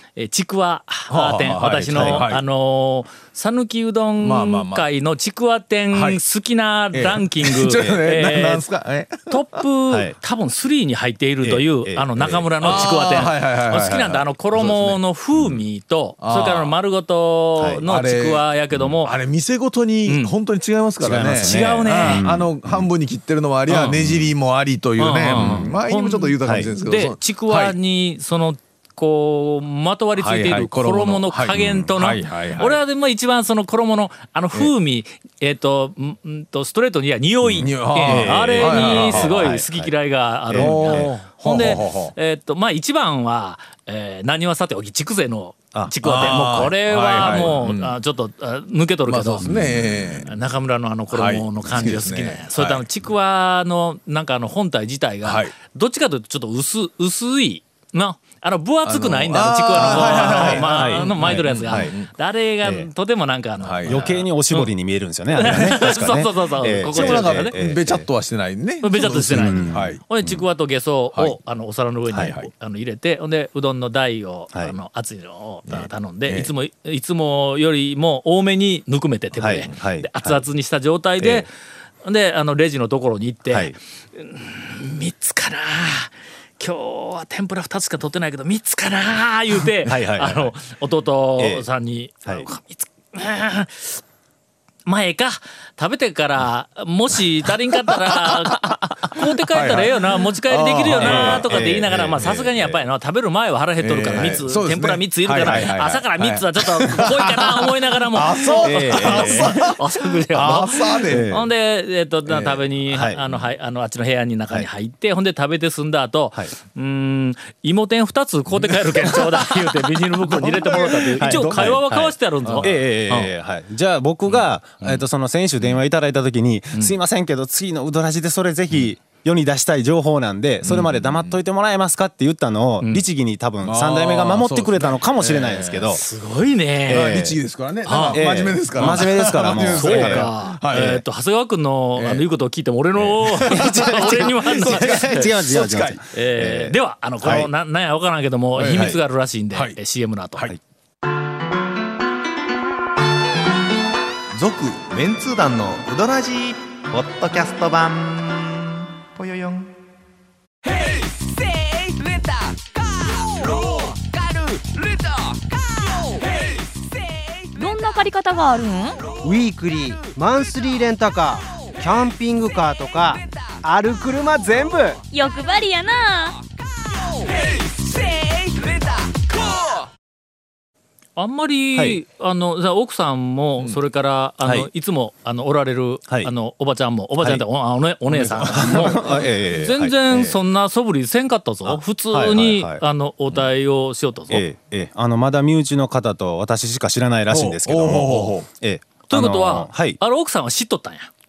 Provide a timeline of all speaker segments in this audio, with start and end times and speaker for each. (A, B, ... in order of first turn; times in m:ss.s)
0:00.2-0:08.6 A
0:01.1-0:02.4 B
0:01.7-0:02.3 C
0:04.2-0:04.9 B
0:05.9-0:06.2 B
0:06.9-0:09.6 B
0:07.8-0:08.0 C
0:09.3-0:19.1 A
0:09.9-0:10.2 C
0:11.8-0:13.3 C
0:12.6-0:15.0 B
0:16.2-0:16.8 B
0:17.6-0:17.9 C
0:17.9-0:18.4 B
0:19.0-0:27.8 B
0:20.1-0:20.4 A
0:21.0-0:22.8 C
0:21.4-0:22.2 A
0:23.7-0:24.0 A
0:24.0-0:24.2 C
0:25.0-0:49.5 A
0:25.4-0:25.8 C
0:26.4-0:26.7 C
0:30.2-0:32.8 B
0:31.5-0:31.9 C
0:37.4-0:39.9 C
0:37.6-0:39.5 B
0:40.5-0:41.1 C
0:40.5-0:42.2 B
0:45.7-0:46.4 C
0:46.0-0:48.0 B
0:47.2-0:47.6 C
0:49.1-0:50.4 B
0:49.4-0:50.0 C
0:50.3-1:04.7 A
0:51.1-0:52.9 B
0:55.2-0:55.6 B
0:58.8-1:02.1 B
0:59.7-1:02.0 C
1:02.6-1:02.9 C
1:03.6-1:03.9 B
1:03.9-1:08.1 C
1:05.3-1:07.6 A
1:05.4-1:05.7 B
1:06.9-1:10.0 B
1:08.8-1:21.5 A
1:08.9-1:10.4 C
1:11.1-1:11.4 B
1:12.1-1:12.4 C
1:12.2-1:12.5 B
1:16.3-1:16.5 B
1:19.4-1:20.4 C
1:21.2-1:21.5 C
1:22.0-1:34.0 A
1:23.5-1:23.8 C
1:29.8-1:30.5 C
1:31.4-1:31.7 C
1:34.8-2:03.3 A
1:38.2-1:38.6 B
1:39.5-1:42.8 B
1:40.9-1:42.4 C
1:43.8-1:51.3 B
1:44.1-1:44.4 C
1:45.5-1:45.7 C
1:48.6-1:49.6 C
1:51.1-1:51.5 C
1:52.3-1:52.7 B
1:52.9-1:53.2 C
2:00.3-2:01.8 B
2:01.2-2:16.0 C
2:10.6-2:11.2 A
2:13.6-2:15.1 B
2:15.2-2:17.2 A
2:16.9-2:21.0 B
2:16.9-2:17.4 C
2:17.9-2:18.2 A
2:18.0-2:20.3 C
2:18.8-2:19.2 A
2:19.7-2:25.4 A
2:22.0-2:22.3 B
2:23.0-2:26.0 B
2:23.5-2:27.5 C
2:26.1-2:30.5 A
2:28.6-2:29.0 B
2:29.5-2:29.8 B
2:34.4-2:39.7 D
2:47.6-2:49.0 E
2:49.2-2:55.0 F
2:55.1-2:56.4 E
3:01.2-3:14.4 A
3:01.8-3:02.0 C
3:04.4-3:04.7 C
3:08.1-3:09.0 B
3:08.5-3:10.4 C
3:11.6-3:12.8 C
3:14.3-3:20.0 C
3:17.3-3:18.5 B
3:19.1-3:21.1 A